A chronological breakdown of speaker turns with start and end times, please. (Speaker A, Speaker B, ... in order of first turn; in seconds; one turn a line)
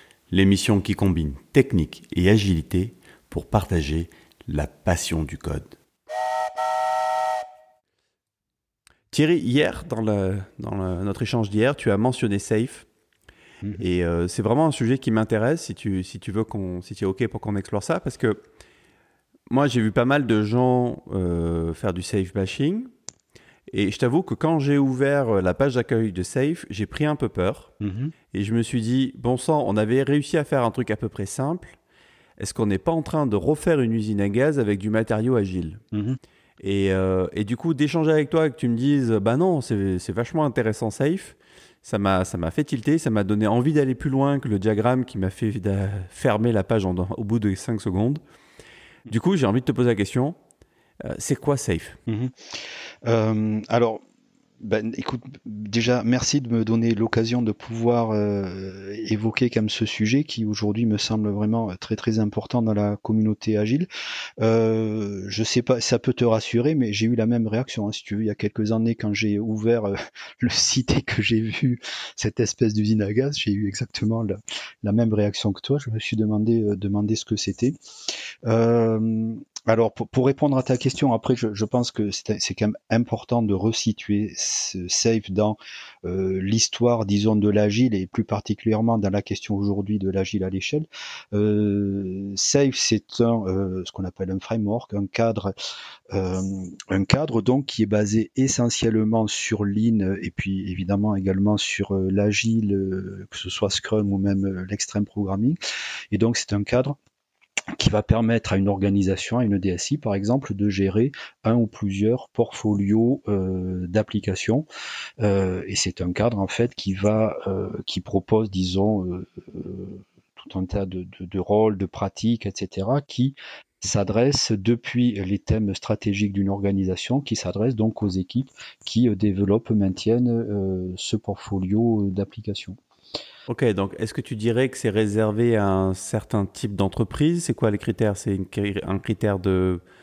Speaker A: 0.3-5.8
Speaker A: 9.1-12.9
Speaker A: 13.8-18.4
Speaker A: 19.5-22.9
Speaker A: 23.7-27.7
Speaker B: 27.8-28.1
Speaker A: 28.3-31.8
Speaker A: 32.4-35.8
Speaker B: 35.9-36.2
Speaker A: 36.6-48.2
Speaker A: 49.1-50.4
Speaker A: 51.0-52.0
Speaker B: 52.1-52.3
Speaker B: 53.0-54.0
Speaker B: 54.6-63.9
Speaker B: 64.4-77.8
Speaker B: 78.5-95.5
Speaker B: 96.1-105.6
Speaker B: 106.1-107.0
Speaker B: 107.8-114.7
Speaker B: 115.2-132.8
Speaker A: 133.5-139.8